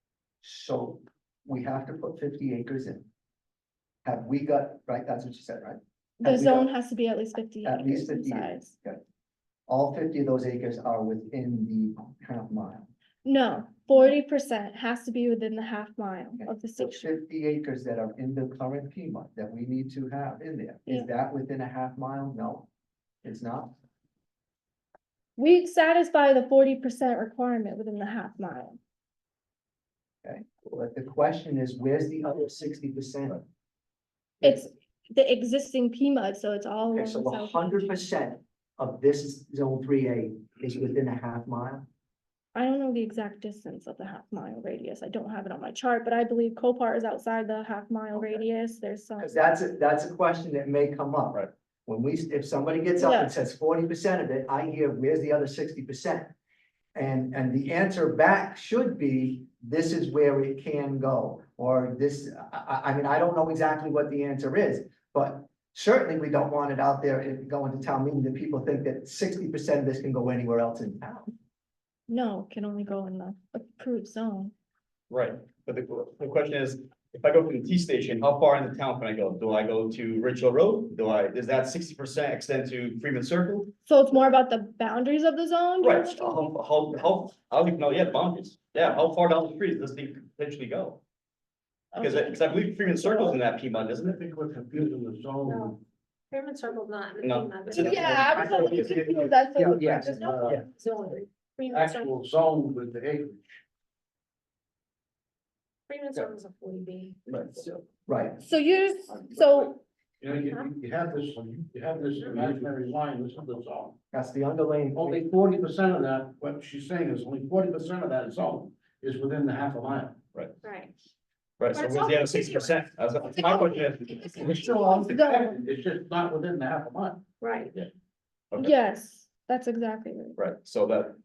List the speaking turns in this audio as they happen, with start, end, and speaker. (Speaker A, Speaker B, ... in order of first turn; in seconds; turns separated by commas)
Speaker A: 0.4-3.1, Speaker A: 4.0-6.7, Speaker B: 6.2-8.7, Speaker A: 7.7-9.0, Speaker A: 9.7-12.9, Speaker B: 13.2-17.1, Speaker A: 16.4-22.7, Speaker A: 23.2-23.7, Speaker B: 25.4-28.8, Speaker A: 30.2-33.4, Speaker B: 34.4-37.9, Speaker A: 36.9-41.9, Speaker B: 42.5-49.3, Speaker A: 49.2-56.3, Speaker B: 53.0-53.3, Speaker A: 57.0-71.3, Speaker B: 72.1-74.5, Speaker C: 75.1-83.7, Speaker B: 83.9-86.5, Speaker C: 85.8-91.0, Speaker B: 91.9-93.4, Speaker C: 92.0-94.2, Speaker D: 94.0-95.8, Speaker E: 95.5-95.7, Speaker E: 96.3-98.7, Speaker C: 97.2-99.0, Speaker A: 97.7-100.6, Speaker B: 97.8-100.3, Speaker E: 100.1-102.1, Speaker D: 100.1-100.6, Speaker D: 101.7-103.6, Speaker E: 105.9-107.2, Speaker C: 107.3-107.7, Speaker A: 108.1-108.4, Speaker B: 108.4-109.8, Speaker D: 110.2-114.0, Speaker E: 110.4-110.7, Speaker A: 114.1-115.2, Speaker D: 115.0-120.2, Speaker E: 120.6-120.9, Speaker C: 121.6-124.5, Speaker E: 121.7-122.7, Speaker D: 124.3-127.2, Speaker B: 124.9-125.6, Speaker E: 127.4-127.7, Speaker B: 128.6-130.4, Speaker C: 130.4-131.2